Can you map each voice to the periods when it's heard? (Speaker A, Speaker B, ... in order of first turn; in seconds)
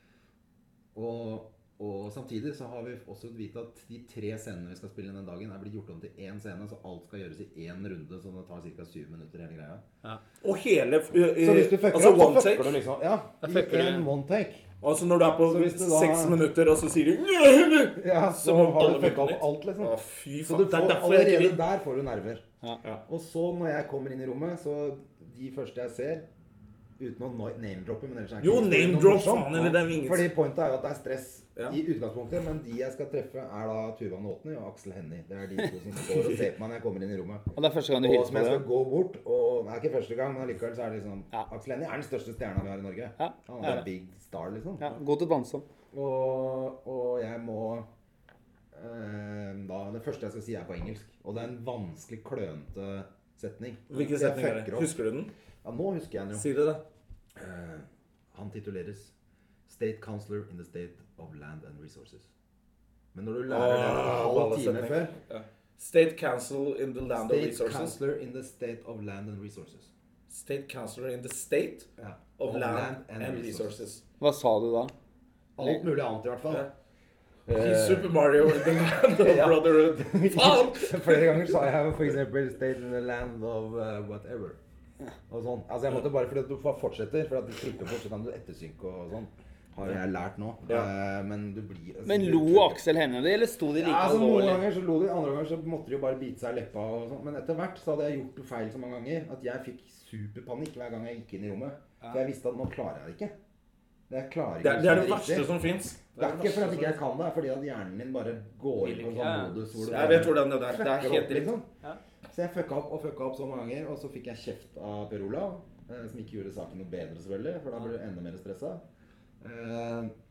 Speaker A: 0.9-9.8, 11.3-14.7, 15.5-16.4, 18.0-22.4, 23.1-26.3, 27.0-37.5, 38.0-44.9, 45.9-47.9, 48.7-54.9, 55.6-56.5, 57.4-59.1, 59.7-62.3, 63.1-65.2, 67.1-69.9, 72.0-73.8, 75.6-76.7, 77.5-84.6, 85.3-92.8, 93.8-103.3, 104.1-105.5, 106.2-111.7, 112.3-118.8, 119.4-120.1
Speaker B: 10.4-12.8, 14.8-21.6, 28.4-30.3, 53.9-55.3, 56.4-56.8, 63.5-68.0, 70.3-74.0, 77.5-81.5, 104.6-107.0, 109.8-111.5
Speaker C: 13.4-14.1, 37.6-38.7, 43.2-43.9, 44.8-45.7, 74.2-74.9, 92.0-94.7, 108.8-110.2